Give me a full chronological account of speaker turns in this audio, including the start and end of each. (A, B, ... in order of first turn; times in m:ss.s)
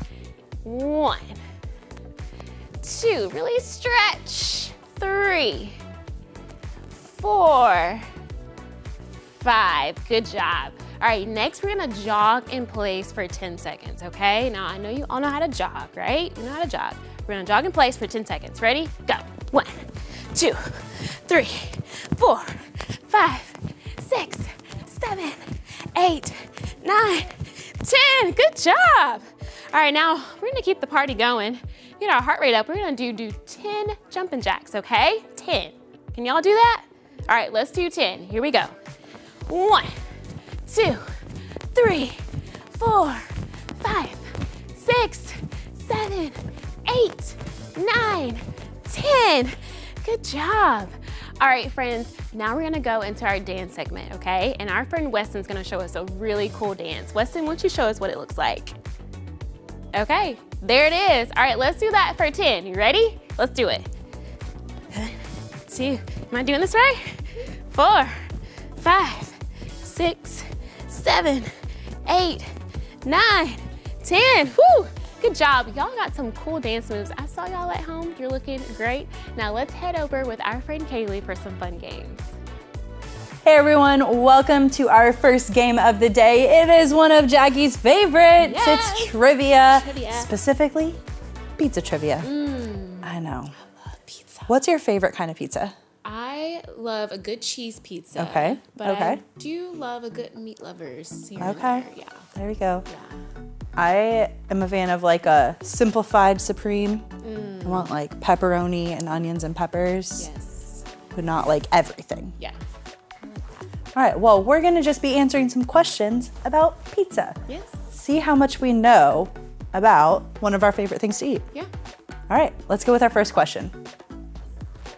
0:00.6-0:01.4 A
0:02.8-0:05.8 A
0:07.1-0:08.1 A
0:09.4-0:38.7 A
0:39.5-0:39.9 A
0:40.7-0:41.1 A
0:41.7-0:42.2 A
0:42.7-0:58.8 A
0:59.9-1:03.9 A
1:04.9-1:11.5 A
1:12.0-1:12.5 A
1:13.0-1:22.2 A
1:23.4-1:31.0 B
1:28.4-1:30.3 A
1:31.6-1:32.3 B
1:32.2-1:34.6 A
1:33.0-1:33.5 B
1:34.5-1:35.8 B
1:36.0-1:42.3 A
1:38.2-1:39.2 B
1:41.4-1:42.8 B
1:42.9-1:43.2 A
1:43.8-1:47.1 B
1:47.2-1:47.9 A
1:47.6-1:50.3 B
1:50.2-1:50.8 A
1:51.1-1:52.4 B
1:53.9-1:57.4 B
1:57.5-1:57.8 A
1:57.9-2:01.5 B
2:02.3-2:03.7 B